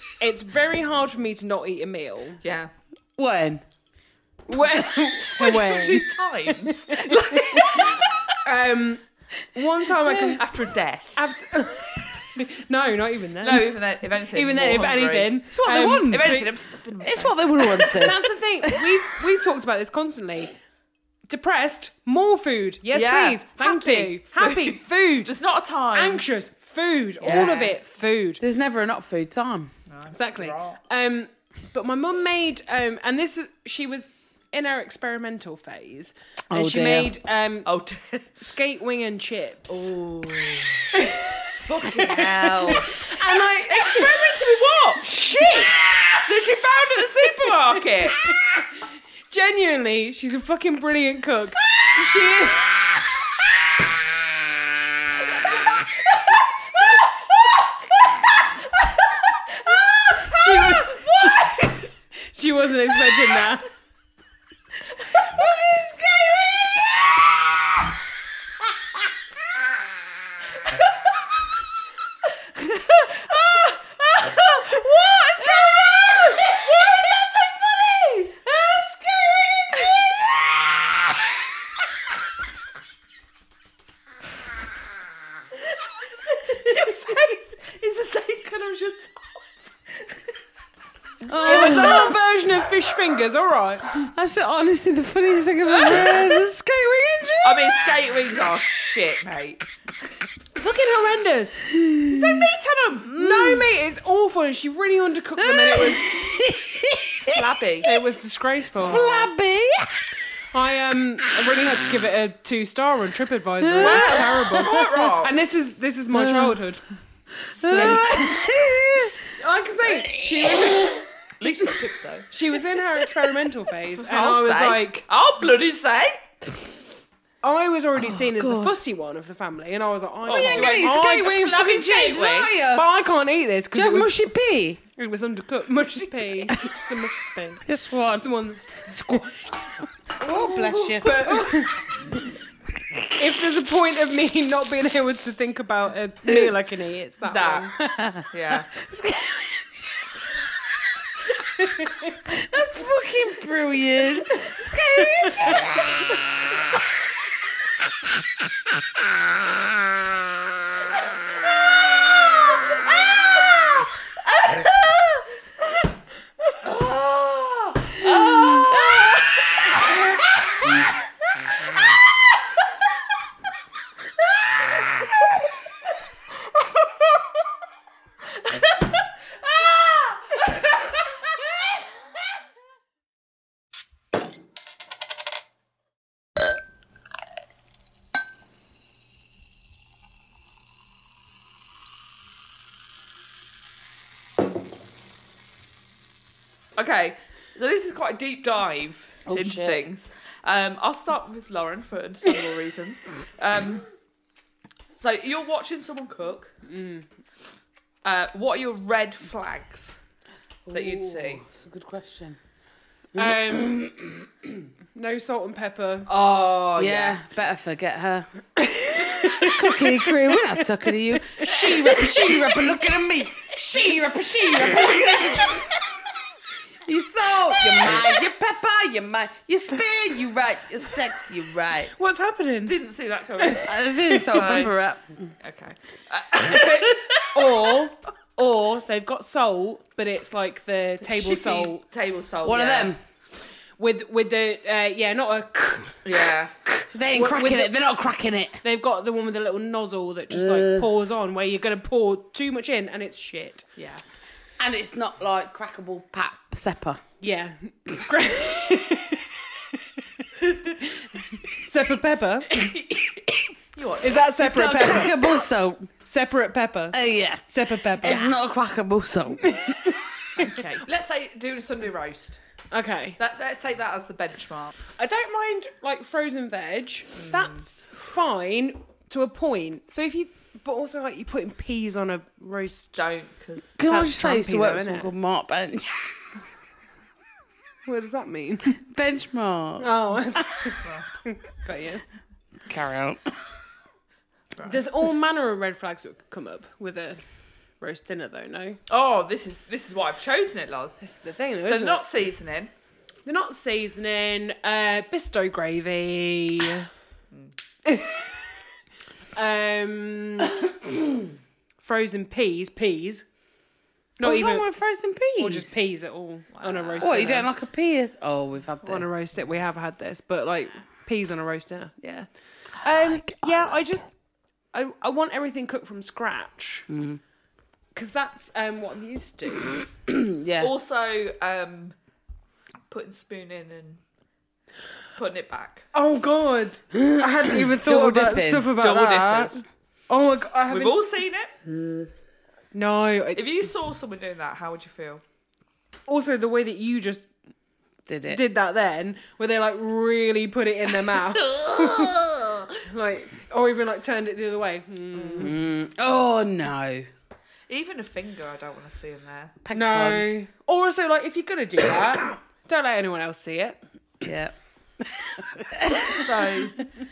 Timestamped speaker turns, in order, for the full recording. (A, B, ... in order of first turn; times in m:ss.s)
0:00.2-0:02.4 A
0:02.4-0:02.7 B
0:03.2-0:03.6 C
0:04.5-0:09.0 A
0:05.2-0:08.1 B
0:09.5-0:10.4 A
0:10.1-0:11.1 B
0:11.1-0:16.5 A
0:13.4-0:18.1 B
0:15.5-0:16.4 C
0:17.0-0:18.2 C
0:17.8-0:20.5 A
0:21.3-0:25.3 A
0:22.9-0:26.2 B
0:25.9-0:28.4 A
0:27.2-0:27.7 B
0:27.2-0:27.6 C
0:28.4-0:29.7 C
0:29.9-0:30.8 B
0:30.1-0:37.7 A
0:36.5-0:37.1 C
0:37.6-0:38.3 B
0:38.4-0:39.9 A
0:39.7-0:43.1 B
0:40.9-0:44.4 A
0:43.7-0:48.2 B
0:45.3-0:45.9 A
0:48.2-0:48.6 A
0:49.3-0:53.0 A
1:00.2-1:01.6 A
1:00.3-1:01.8 B
1:02.2-1:03.7 A
1:05.2-1:07.8 C
1:12.5-1:20.4 B
1:15.8-1:16.4 C
1:18.7-1:20.1 C
1:25.6-1:30.2 B
1:31.2-1:32.2 B
1:31.3-1:32.2 C
1:31.4-1:34.0 A
1:33.9-1:38.0 C
1:35.8-1:36.2 B
1:37.4-1:39.7 B
1:40.6-1:41.6 A
1:41.7-1:42.5 C
1:42.1-1:43.2 B
1:43.1-1:43.7 C
1:43.1-1:46.2 A
1:45.4-1:47.5 C
1:47.3-1:47.9 B
1:47.8-1:49.3 A
1:48.8-1:50.1 C
1:50.5-1:56.9 A
1:53.6-1:55.1 C
1:53.8-1:55.4 B
1:56.1-1:56.6 C
1:57.5-1:58.3 B
1:57.6-1:58.4 A
1:57.6-1:59.2 C
1:59.2-2:01.0 A
1:59.9-2:01.0 C
2:01.4-2:02.3 B
2:02.3-2:05.0 A
2:04.0-2:06.2 B
2:07.4-2:11.4 A
2:08.0-2:08.8 C
2:10.2-2:12.6 B
2:10.3-2:12.9 C
2:12.6-2:14.2 A
2:13.7-2:14.8 C
2:14.9-2:19.4 A
2:17.6-2:21.7 C
2:20.5-2:21.6 B
2:20.5-2:21.7 A
2:23.1-2:27.7 A
2:27.3-2:27.8 B
2:27.8-2:30.1 C
2:28.3-2:28.7 B
2:31.6-2:32.1 A
2:32.2-2:36.8 C
2:44.2-2:45.3 B
2:46.6-2:49.9 B
2:48.6-2:49.1 C
2:58.4-3:01.0 B
3:16.8-3:23.9 B
3:19.2-3:19.8 C
3:25.0-3:26.5 B
3:26.6-3:27.0 A
3:28.0-3:30.0 B
3:30.7-3:32.4 C
3:30.7-3:31.4 B
3:33.1-3:33.8 A
3:33.1-3:34.6 C
3:34.9-3:36.1 A
3:36.1-3:37.2 B
3:36.8-3:45.8 C
3:39.0-3:40.1 A
3:41.4-3:42.1 A
3:46.9-3:51.9 C
3:51.9-3:52.8 A
3:52.6-3:54.8 B
3:53.4-3:54.4 A
3:53.6-3:55.1 C
3:55.4-3:57.8 B
3:56.4-4:01.8 A
4:01.0-4:02.9 B
4:02.4-4:03.0 C
4:03.8-4:06.0 A
4:06.0-4:06.6 B
4:06.8-4:07.7 A
4:06.9-4:08.6 C
4:08.6-4:13.7 A
4:10.3-4:10.9 C
4:13.8-4:14.0 B
4:14.6-4:17.0 C
4:17.2-4:22.6 A
4:22.5-4:24.3 B
4:24.0-4:25.3 A
4:24.4-4:25.9 C
4:26.0-4:28.3 A
4:26.9-4:30.0 C
4:29.4-4:30.6 A
4:30.4-4:32.4 B
4:32.7-4:33.2 A
4:33.2-4:34.7 B
4:35.0-4:43.0 A
4:37.2-4:37.6 B
4:43.0-4:43.8 B
4:43.8-4:46.2 C
4:43.8-4:45.1 A
4:47.9-4:48.8 A
4:48.8-4:49.9 C
4:49.8-4:52.0 A
4:50.8-4:51.1 B
4:52.7-4:53.3 C
4:54.6-4:54.8 B
4:54.6-4:57.2 A
4:57.8-4:58.8 A
4:58.9-5:01.0 B
5:01.0-5:02.0 A
5:01.7-5:02.7 B
5:03.3-5:06.9 A
5:07.8-5:08.4 A
5:09.3-5:10.7 A
5:11.8-5:13.3 A
5:14.2-5:14.7 A
5:14.2-5:15.8 C
5:15.4-5:17.5 A
5:16.6-5:17.3 B
5:17.0-5:19.2 C
5:18.8-5:24.1 A
5:23.0-5:23.8 C
5:24.7-5:26.9 A
5:26.9-5:27.2 C
5:28.0-5:29.7 A
5:30.1-5:30.7 C
5:30.6-5:32.0 B
5:32.9-5:34.0 B
5:35.2-5:35.9 B
5:35.9-5:41.0 A
5:36.9-5:38.7 C
5:38.7-5:39.6 B
5:40.7-5:41.5 B
5:42.7-5:43.6 A
5:43.4-5:45.2 B
5:46.1-5:47.3 A
5:48.1-5:48.4 C
5:48.3-5:55.6 A
5:55.4-5:57.1 C
5:57.7-5:59.6 B
5:59.6-6:00.3 C
5:59.7-6:03.8 A
6:04.2-6:06.6 C
6:06.0-6:06.8 B